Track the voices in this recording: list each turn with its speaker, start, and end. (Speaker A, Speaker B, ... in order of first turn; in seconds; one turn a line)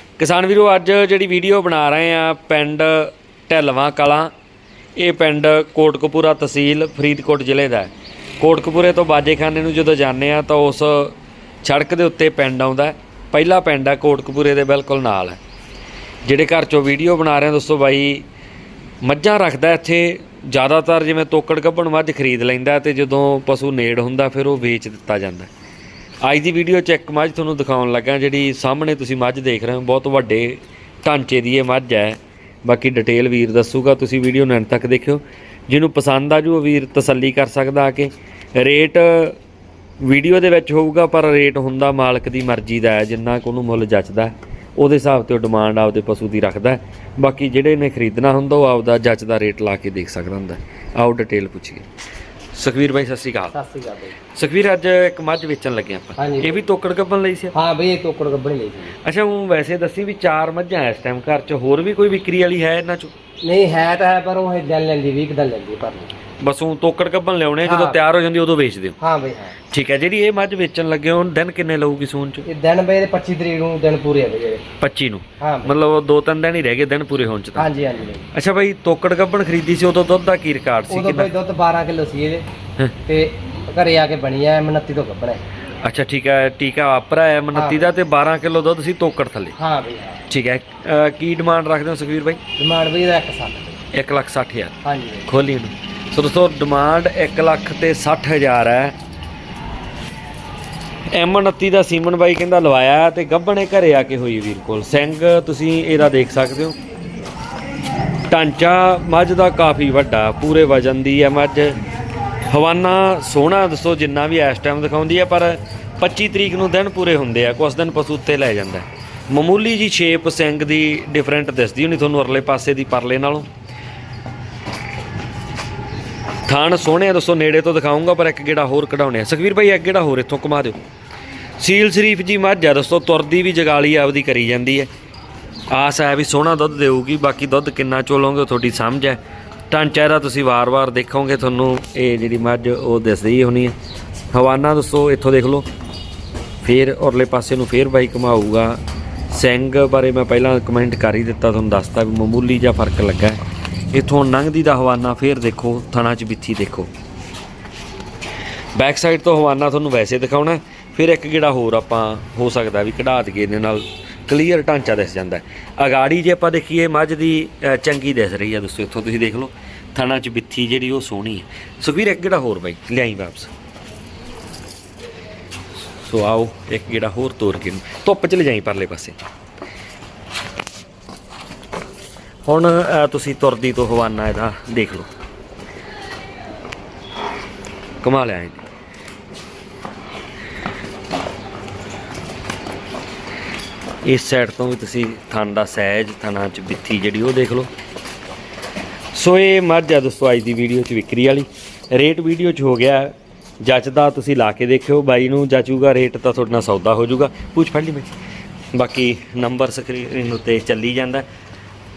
Speaker A: 0.2-4.3
Speaker A: 5.0-15.4
Speaker A: 16.2-18.2
Speaker A: 19.0-25.5
Speaker A: 26.2-39.4
Speaker A: 40.0-51.8
Speaker A: 52.5-53.5
Speaker B: 53.5-54.1
Speaker A: 54.3-57.5
Speaker B: 56.2-56.6
Speaker B: 57.5-58.9
Speaker A: 59.0-63.1
Speaker B: 63.4-66.1
Speaker A: 66.4-69.0
Speaker B: 67.6-68.0
Speaker B: 69.0-69.5
Speaker A: 69.7-72.5
Speaker B: 72.4-74.6
Speaker A: 74.8-77.7
Speaker B: 75.4-75.7
Speaker B: 77.6-78.3
Speaker A: 78.3-81.3
Speaker B: 80.9-82.5
Speaker B: 83.1-85.4
Speaker A: 85.8-89.5
Speaker B: 87.5-87.9
Speaker B: 89.6-90.2
Speaker A: 90.3-92.4
Speaker B: 92.6-93.8
Speaker A: 93.9-94.7
Speaker B: 94.8-95.3
Speaker A: 95.3-99.0
Speaker A: 101.1-106.8
Speaker A: 108.3-111.8
Speaker A: 112.5-123.5
Speaker A: 126.5-130.8
Speaker A: 131.6-134.9
Speaker A: 135.7-143.7
Speaker A: 144.3-145.7
Speaker A: 146.6-153.4
Speaker A: 153.9-156.9
Speaker A: 158.8-173.5
Speaker A: 176.0-179.2
Speaker A: 182.4-185.1
Speaker A: 188.0-188.6
Speaker A: 194.0-197.7
Speaker A: 199.1-208.1
Speaker A: 208.7-211.2